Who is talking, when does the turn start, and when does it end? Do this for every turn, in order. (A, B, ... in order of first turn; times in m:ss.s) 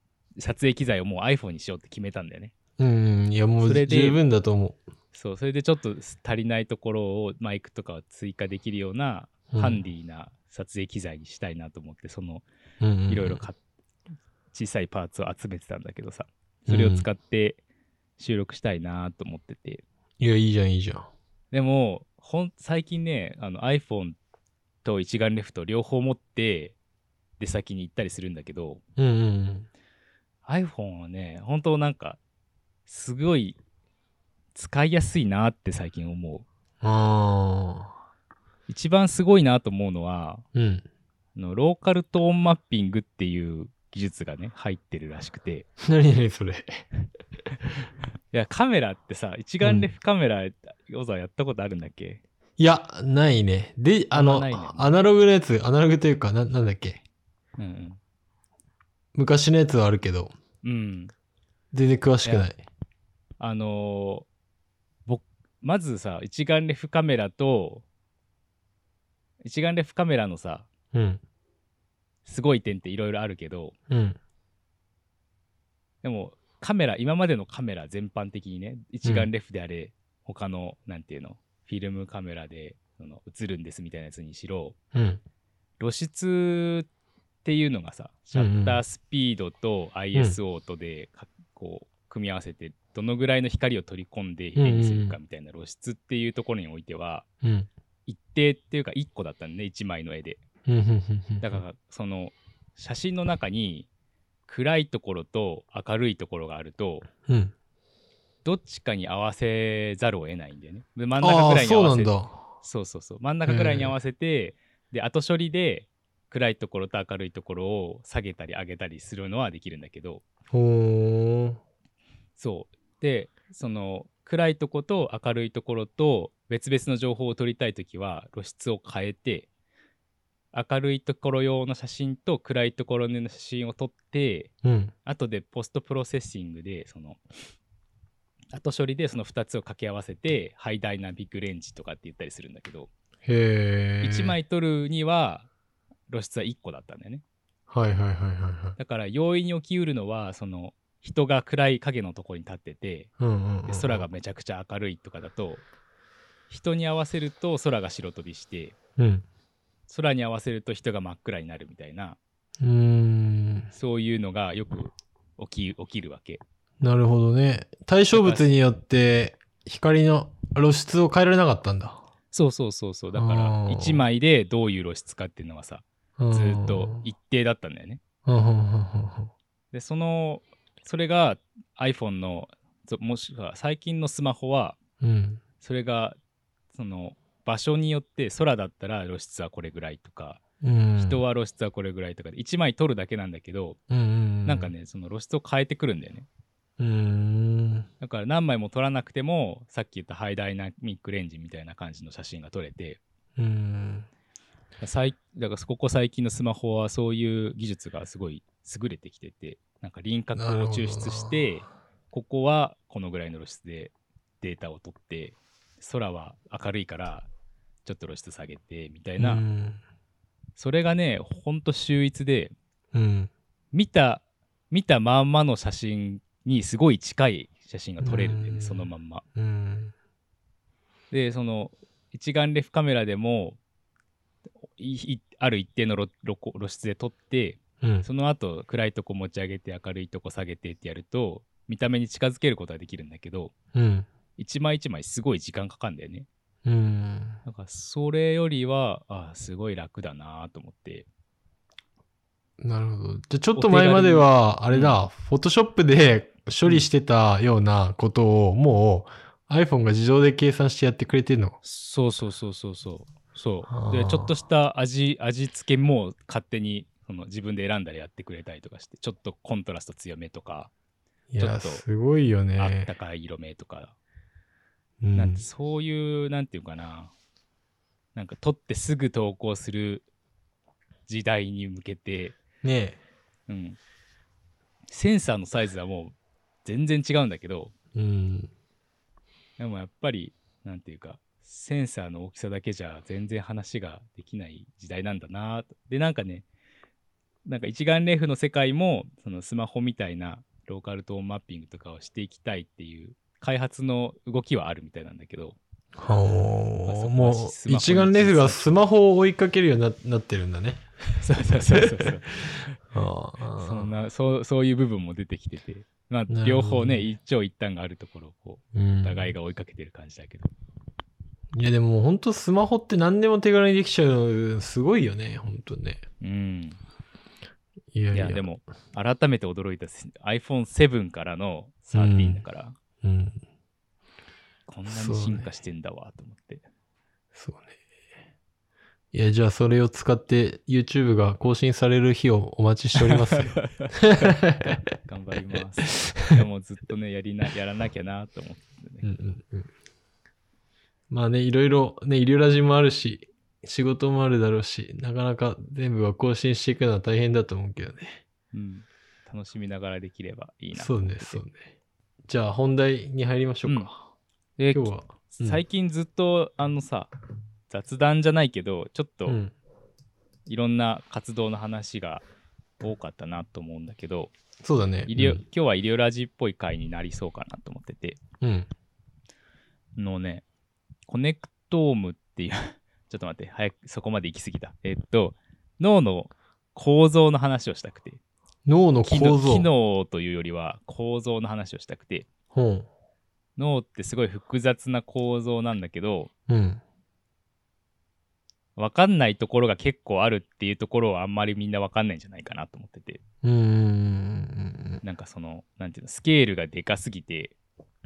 0:00.4-0:02.5 A
0:02.8-0:04.8 B
0:03.6-0:04.2 A
0:05.1-0:12.4 A
0:09.5-0:09.8 B
0:12.8-0:13.4 B
0:13.1-0:13.6 A
0:14.5-0:17.6 A
0:16.7-0:17.1 B
0:18.2-0:19.8 A
0:20.2-0:21.1 B
0:21.5-0:24.2 A
0:24.8-0:26.7 A
0:27.4-0:28.8 A
0:29.0-0:29.7 B
0:30.4-0:32.2 A
0:32.9-0:33.6 A
0:34.5-0:36.4 A
0:36.8-0:37.9 B
0:38.7-0:40.4 A
0:40.5-0:40.8 B
0:41.3-0:45.6 A
0:45.8-0:46.8 B
0:48.3-0:52.2 A
0:49.6-0:49.9 B
0:52.6-0:57.0 B
0:54.1-0:54.9 A
0:57.6-0:58.0 A
0:59.1-1:00.3 B
1:00.6-1:01.1 A
1:01.7-1:02.6 B
1:03.4-1:04.3 A
1:05.0-1:07.8 A
1:09.4-1:10.7 A
1:10.9-1:11.2 B
1:12.2-1:13.7 A
1:13.9-1:14.2 B
1:16.0-1:24.7 A
1:19.0-1:19.3 B
1:24.9-1:25.2 B
1:25.8-1:26.9 A
1:27.4-1:37.2 A
1:28.3-1:28.8 B
1:34.6-1:35.2 B
1:37.4-1:37.7 B
1:38.1-1:40.4 A
1:40.6-1:41.6 B
1:41.4-1:43.9 A
1:44.5-1:47.1 A
1:47.3-1:47.5 B
1:48.4-2:00.2 A
1:51.2-1:52.4 B
1:53.5-1:53.9 B
2:00.5-2:01.6 B
2:02.4-2:09.5 A
2:10.5-2:14.5 A
2:14.6-2:14.9 B
2:15.0-2:17.2 A
2:18.5-2:22.9 A
2:23.2-2:24.3 B
2:24.0-2:25.5 A
2:26.1-2:27.2 A
2:27.7-2:28.8 B
2:28.8-2:33.1 A
2:33.2-2:34.0 B
2:33.6-2:35.6 A
2:36.5-2:38.8 A
2:39.0-2:39.2 B
2:39.9-2:42.2 A
2:42.6-2:43.7 B
2:43.7-2:46.4 A
2:46.8-2:52.0 B
2:48.1-2:48.4 A
2:52.3-2:58.0 A
2:53.1-2:54.0 B
2:56.2-2:57.0 B
2:58.2-2:59.3 B
2:59.7-3:04.8 A
3:05.0-3:05.4 B
3:05.6-3:06.2 A
3:06.7-3:10.4 A
3:10.6-3:11.2 B
3:11.0-3:13.8 A
3:13.9-3:14.7 B
3:14.4-3:16.3 A
3:16.8-3:17.9 B
3:18.0-3:23.0 A
3:23.4-3:24.1 B
3:24.8-3:37.3 A
3:30.3-3:31.4 B
3:37.8-3:39.4 A
3:39.2-3:39.8 B
3:40.6-3:42.5 A
3:42.9-3:43.3 B
3:43.7-3:49.2 A
3:48.0-3:49.9 B
3:51.1-3:53.6 A
3:54.8-4:03.5 A
3:57.8-3:58.0 B
4:03.7-4:04.1 B
4:04.4-4:06.3 A
4:06.6-4:07.4 B
4:07.4-4:11.1 A
4:12.6-4:21.6 B
4:13.5-4:15.0 A
4:21.6-4:30.7 A
4:23.7-4:24.3 B
4:31.3-4:32.9 B
4:31.4-4:31.8 A
4:32.6-4:34.0 A
4:35.0-4:35.4 B
4:35.1-4:37.1 A
4:38.1-4:40.0 A
4:41.1-4:42.4 A
4:42.6-4:43.0 B
4:43.5-4:43.8 A
4:44.9-4:47.7 A
4:47.9-4:48.5 B
4:49.6-4:56.4 A
4:57.4-5:05.6 A
5:06.0-5:10.8 B
5:06.8-5:08.7 A
5:11.2-5:12.7 A
5:11.7-5:12.1 B
5:12.9-5:13.9 B
5:13.6-5:20.5 A
5:16.3-5:17.1 B
5:18.7-5:19.3 B
5:21.5-5:26.0 B
5:26.2-5:26.8 A
5:27.9-5:28.4 B
5:28.1-5:32.8 A
5:31.9-5:32.4 B
5:33.0-5:33.4 B
5:34.7-5:36.6 A
5:34.9-5:35.5 B
5:37.3-5:37.7 B
5:39.1-5:44.8 B
5:43.0-5:49.0 A
5:46.0-5:46.4 B
5:49.0-5:49.7 B
5:51.1-5:58.2 B
5:58.5-6:01.4 A
6:00.7-6:01.7 B
6:02.2-6:04.1 B
6:04.6-6:07.1 A
6:04.7-6:05.6 B
6:07.7-6:09.4 A
6:09.2-6:09.5 B
6:10.5-6:12.2 A
6:12.8-6:14.3 A
6:14.6-6:15.4 B
6:15.1-6:18.2 A
6:18.4-6:18.7 B
6:20.0-6:20.4 A
6:21.1-6:28.2 A
6:28.6-6:29.7 B
6:29.1-6:32.3 A
6:32.5-6:32.9 B
6:33.6-6:36.3 A
6:36.5-6:36.8 B
6:38.8-6:43.2 A
6:43.4-6:45.0 B
6:45.0-6:47.5 A